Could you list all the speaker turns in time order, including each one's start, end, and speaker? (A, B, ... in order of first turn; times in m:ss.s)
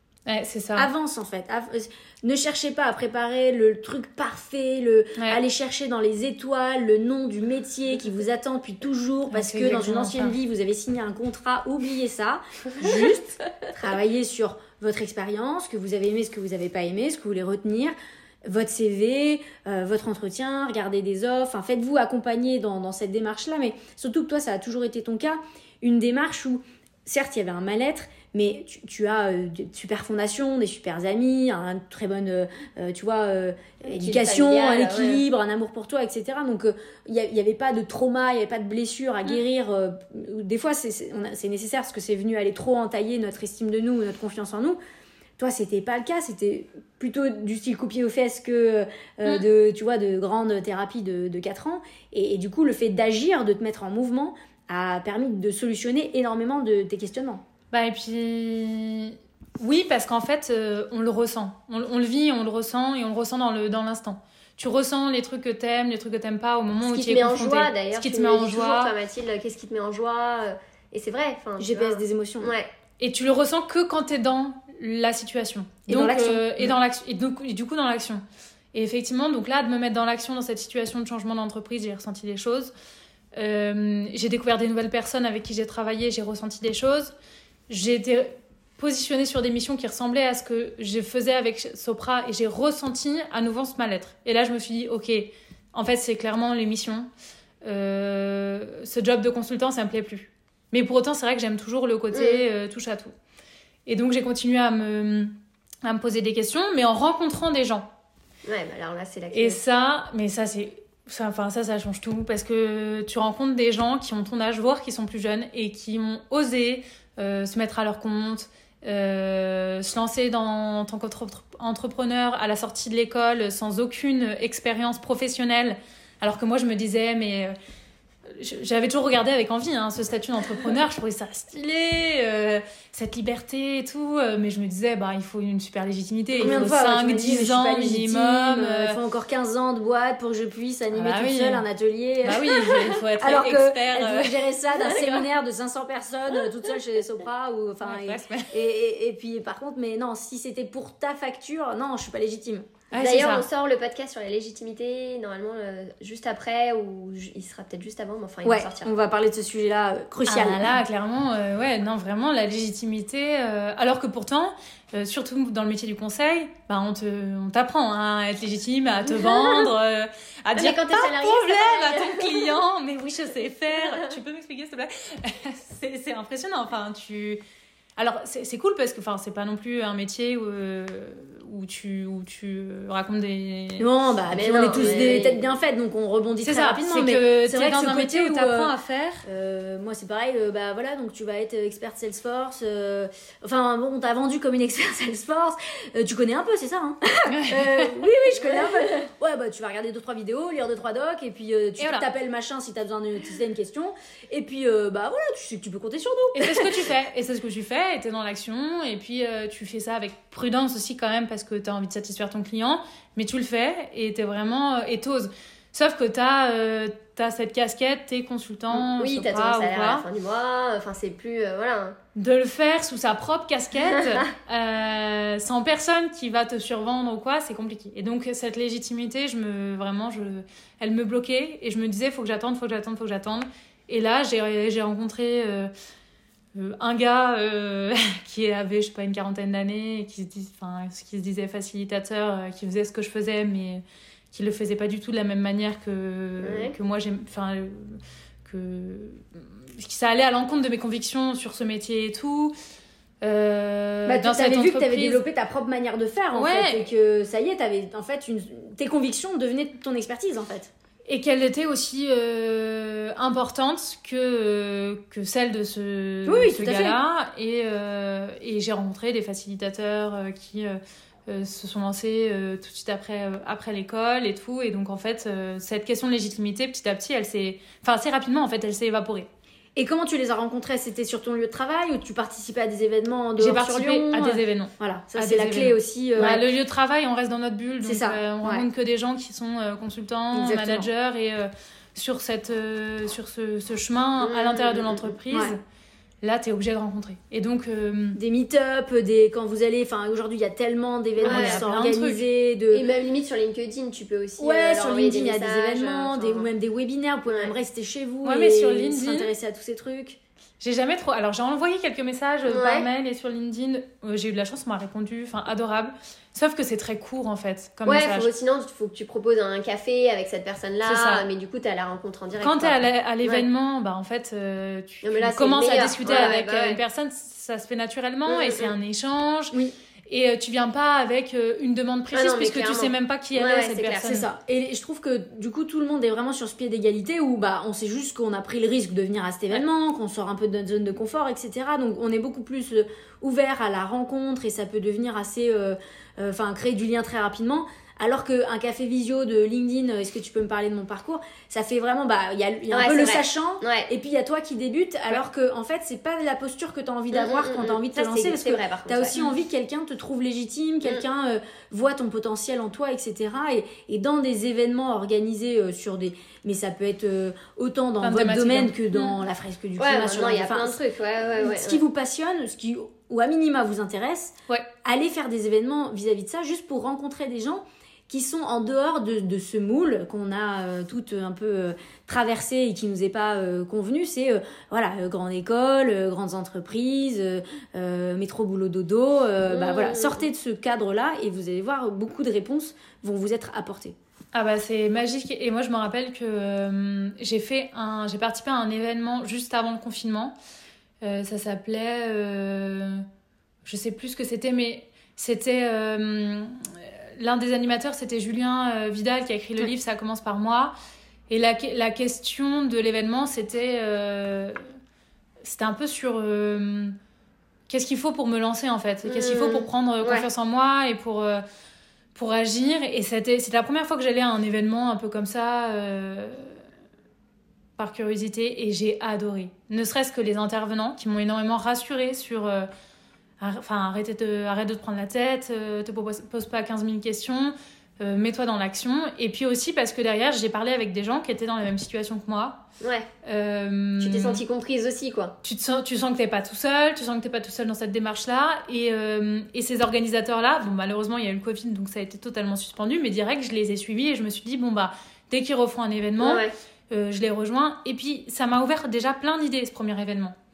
0:00.3-0:00.9 A
0:00.7-0:44.8 B
0:09.3-0:10.3 A
0:33.8-0:35.2 C
0:45.4-0:57.4 B
0:57.7-1:08.9 A
1:06.8-1:12.7 C
1:11.6-1:12.5 B
1:13.0-1:22.7 A
1:15.9-1:16.7 B
1:23.4-1:27.1 A
1:27.7-1:37.1 A
1:37.6-1:43.1 A
1:42.1-1:42.4 C
1:43.8-1:45.3 A
1:45.8-1:47.8 A
1:48.4-1:49.6 C
1:49.3-2:07.5 A
2:08.3-2:19.0 A
2:16.4-2:32.7 B
2:20.9-2:21.6 A
2:22.2-2:24.4 A
2:24.8-2:25.2 C
2:27.8-2:28.5 A
2:32.9-2:33.4 A
2:33.0-2:38.9 C
2:38.4-2:40.7 B
2:40.3-2:57.4 A
2:49.1-2:49.7 C
2:50.5-2:52.5 C
2:58.0-3:03.8 A
3:03.8-3:08.7 B
3:04.4-3:05.5 C
3:04.7-3:05.1 A
3:06.4-3:09.2 A
3:09.2-3:26.8 B
3:17.3-3:17.6 A
3:18.5-3:18.9 C
3:21.8-3:22.0 A
3:26.3-3:40.0 A
3:38.7-3:42.0 C
3:42.1-3:55.7 A
3:56.5-4:12.5 A
4:06.4-4:06.7 C
4:13.2-4:15.2 A
4:14.0-4:20.7 B
4:16.3-4:16.9 A
4:21.0-4:39.3 A
4:26.2-4:27.0 B
4:39.8-4:46.4 B
4:43.4-4:55.6 A
4:47.8-4:48.6 B
4:50.3-4:50.9 B
4:54.2-4:55.2 C
4:56.2-4:58.2 A
4:58.1-5:02.9 B
5:01.2-5:01.6 C
5:01.2-5:02.2 A
5:02.7-5:06.5 C
5:04.4-5:10.2 B
5:07.3-5:07.5 C
5:08.2-5:09.3 A
5:10.6-5:18.3 A
5:12.5-5:12.9 C
5:17.8-5:23.4 C
5:20.8-5:21.2 A
5:22.4-5:29.6 A
5:25.0-5:26.8 C
5:28.3-5:28.7 C
5:30.1-5:34.3 A
5:32.1-5:34.1 C
5:34.0-6:10.8 B
5:52.7-5:53.9 C
5:57.1-5:59.2 C
6:08.0-6:09.2 A
6:09.8-6:11.8 C
6:11.4-6:14.3 B
6:14.8-6:33.9 B
6:29.5-6:30.2 C
6:34.3-6:40.3 A
6:41.0-6:43.0 A
6:43.6-6:50.7 A
6:51.3-6:54.6 A
6:55.4-6:57.0 A
6:57.7-7:01.4 A
6:59.0-7:00.3 C
7:02.1-7:06.6 A
7:07.8-7:12.7 A
7:13.4-7:22.6 A
7:22.8-7:23.1 C
7:23.2-7:24.4 A
7:24.0-7:25.4 C
7:25.4-7:40.3 A
7:36.2-7:36.5 C